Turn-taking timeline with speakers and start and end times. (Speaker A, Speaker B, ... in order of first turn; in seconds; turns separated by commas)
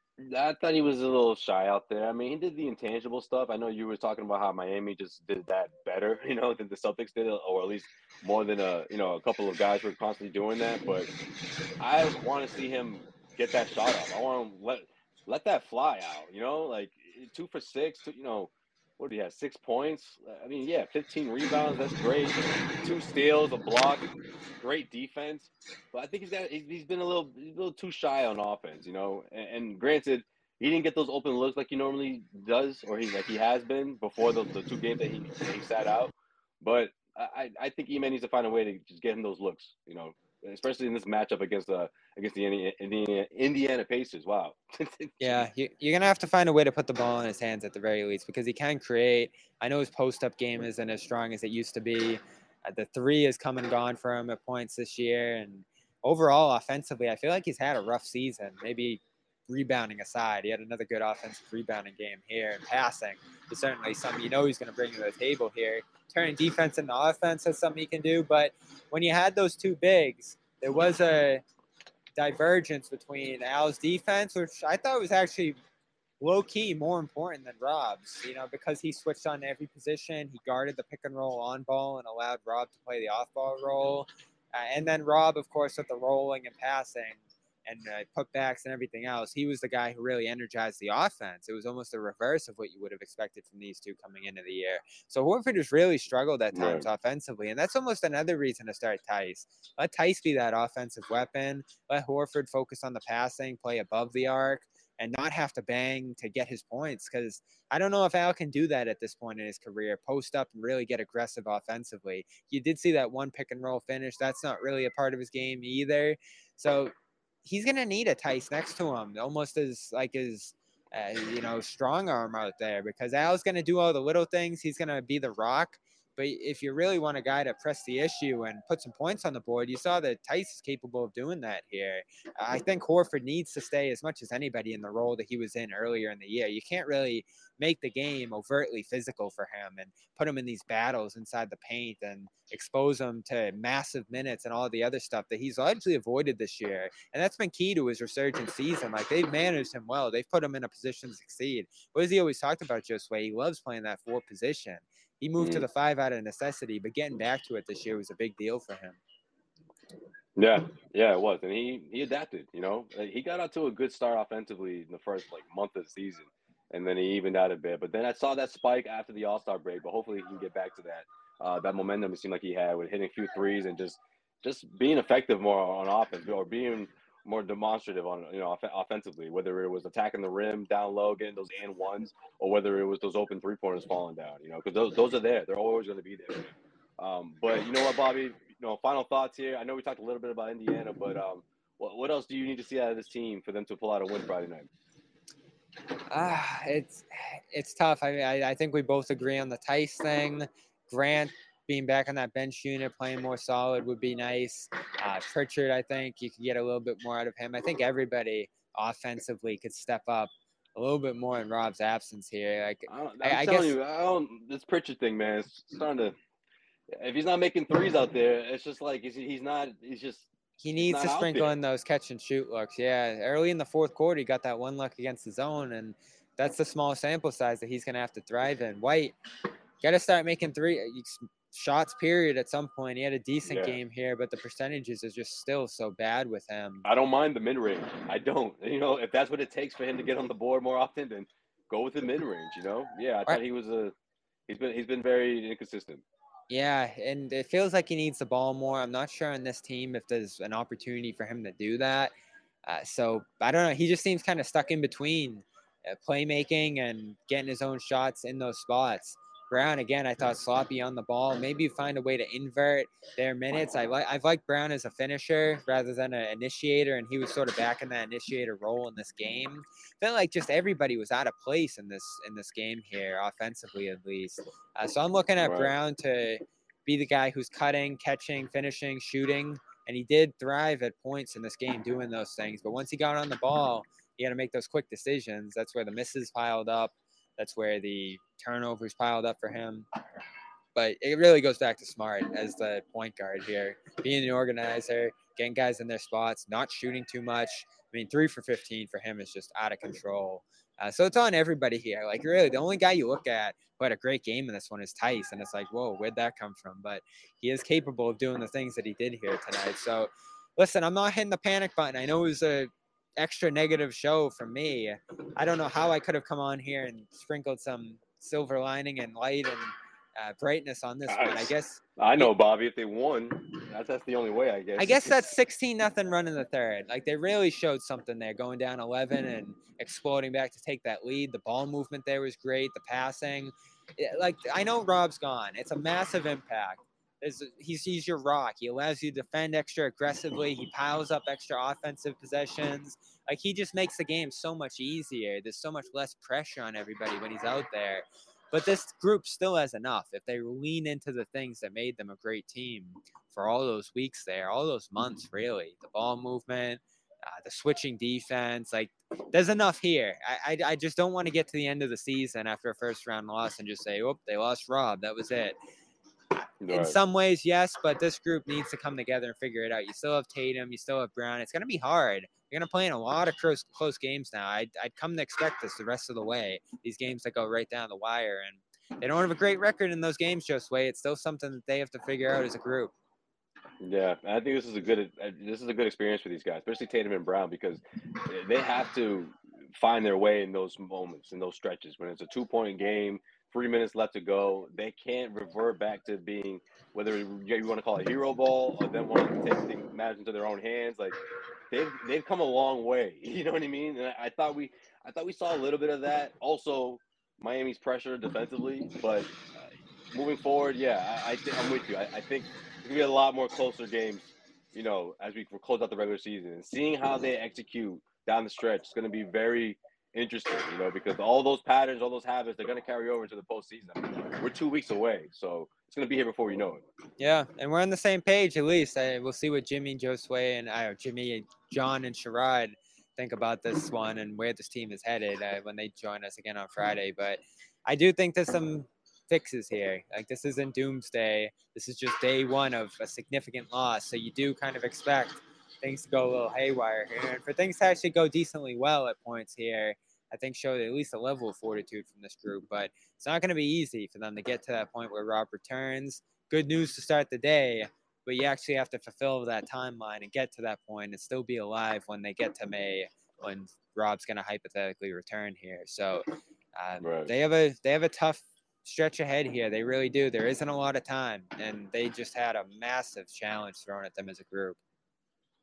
Speaker A: 0.2-11.1, Speaker A: 11.8-24.1, Speaker A: 24.6-45.4, Speaker B: 45.2-71.4, Speaker B: 72.2-75.6, Speaker B: 76.2-116.9, Speaker A: 96.5-96.8, Speaker B: 117.4-159.0, Speaker A: 155.4-155.7, Speaker A: 160.3-194.7, Speaker B: 196.1-213.8, Speaker A: 212.9-216.1, Speaker A: 216.9-221.6, Speaker B: 220.6-229.1, Speaker B: 229.8-236.9, Speaker A: 233.5-233.8, Speaker A: 236.8-243.9, Speaker A: 244.5-246.0, Speaker B: 246.5-252.1, Speaker B: 252.7-289.9, Speaker A: 275.4-275.7, Speaker B: 290.7-322.3, Speaker A: 321.1-325.3, Speaker B: 324.8-365.6, Speaker A: 366.6-367.0, Speaker B: 366.7-382.9, Speaker A: 383.8-401.2, Speaker A: 401.7-426.8, Speaker B: 427.2-474.8, Speaker A: 467.0-467.3